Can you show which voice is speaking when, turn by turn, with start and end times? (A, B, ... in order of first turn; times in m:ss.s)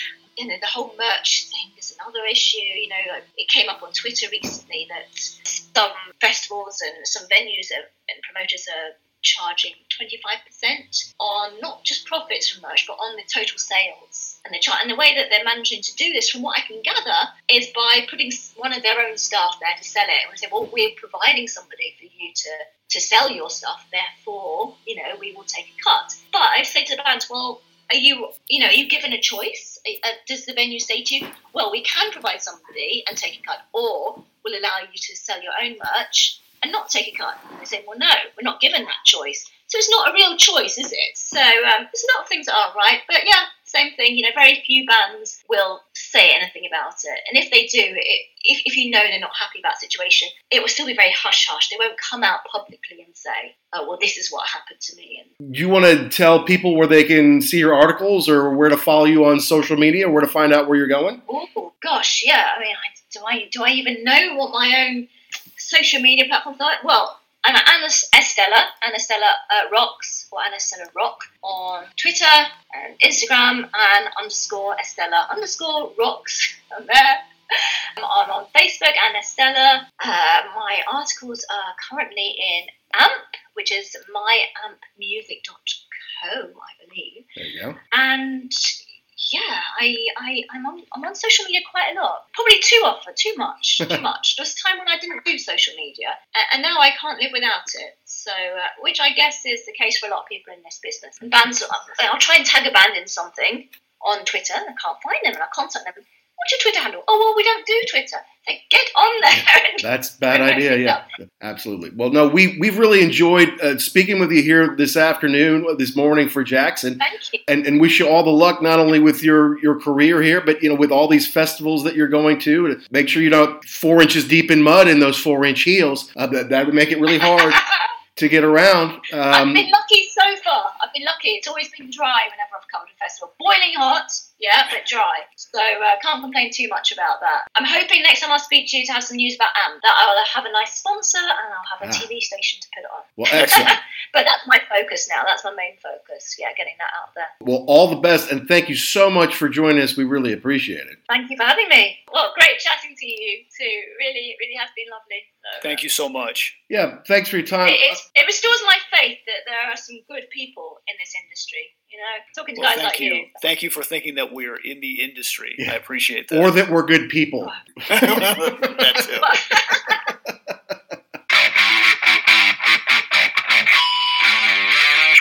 0:00.4-0:55.3 A
0:55.4-1:01.2 B
1:01.3-1:27.3 A
1:27.4-1:27.8 B
1:27.9-1:51.0 A
1:49.8-2:07.6 B
1:57.0-1:57.4 A
2:07.3-2:07.6 A
2:08.1-2:09.7 B
2:09.3-2:27.3 A
2:23.2-2:23.8 B
2:27.4-2:31.0 B
2:31.1-2:35.8 A
2:35.6-2:36.5 C
2:36.7-2:38.0 B
2:37.6-2:43.3 A
2:42.6-2:46.5 C
2:46.3-2:49.0 B
2:47.9-2:49.3 C
2:49.2-2:50.0 A
2:49.9-2:50.7 B